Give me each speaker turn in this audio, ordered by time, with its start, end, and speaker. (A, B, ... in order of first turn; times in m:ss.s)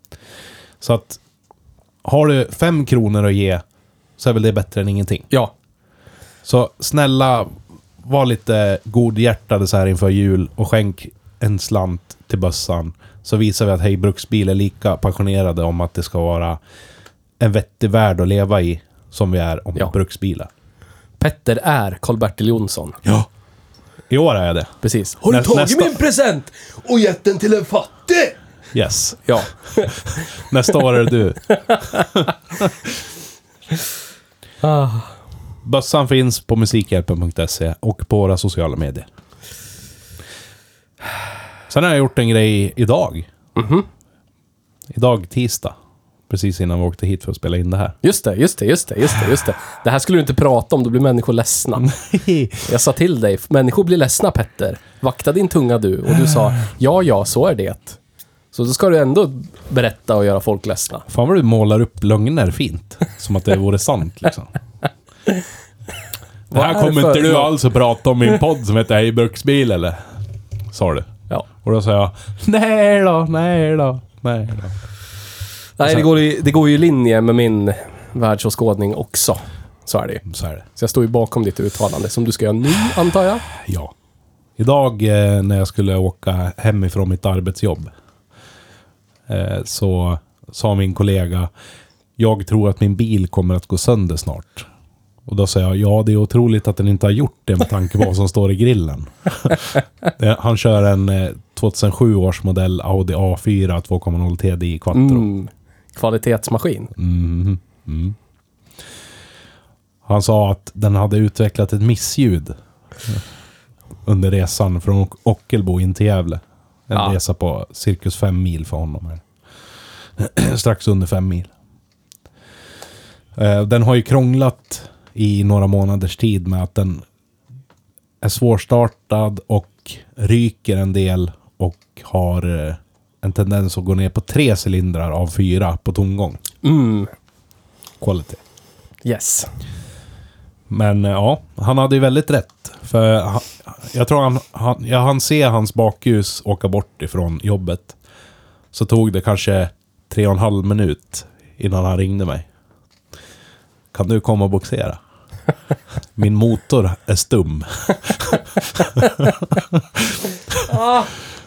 0:00.8-0:01.2 A
0:02.0-0:03.6 A
0:04.2-0:05.3 A
0:06.4-0:16.6 A
0:17.4-0:20.5 A
0:21.2-0:23.0 B
0:24.1-0:26.0 A
0:24.8-0:28.4 B
0:28.7-0:32.9 A
0:29.3-0:30.2 B
0:34.6-0:35.1 B
0:35.6-0:39.1 A
0:41.7-0:43.3 A
0:43.6-0:43.9 B
0:44.9-0:45.8 A
0:46.3-0:48.0 A
0:48.0-0:51.9 B
0:51.8-0:52.7 A
0:52.7-0:58.0 B
0:58.5-1:01.0 B
1:01.1-1:04.5 A
1:06.5-1:07.5 B
1:06.5-1:10.0 A
1:10.7-1:14.8 A
1:15.8-1:20.2 B
1:15.8-1:16.1 A
1:20.3-1:20.6 A
1:20.8-1:23.4 B
1:23.6-1:23.9 A
1:24.6-1:27.9 A
1:29.3-1:31.5 A
1:32.2-1:34.7 A
1:35.3-1:45.3 A
1:44.9-1:46.9 B
1:47.0-1:48.2 A
1:50.1-1:52.6 A
1:54.1-1:59.2 A
2:00.2-2:01.5 A
2:03.4-2:07.0 A
2:08.2-2:16.4 A
2:16.6-2:17.1 B
2:18.0-2:18.4 A
2:19.0-2:19.5 B
2:20.7-2:28.0 A
2:28.7-2:32.5 A
2:33.9-2:35.0 A
2:36.2-2:40.7 A
2:40.7-2:41.1 B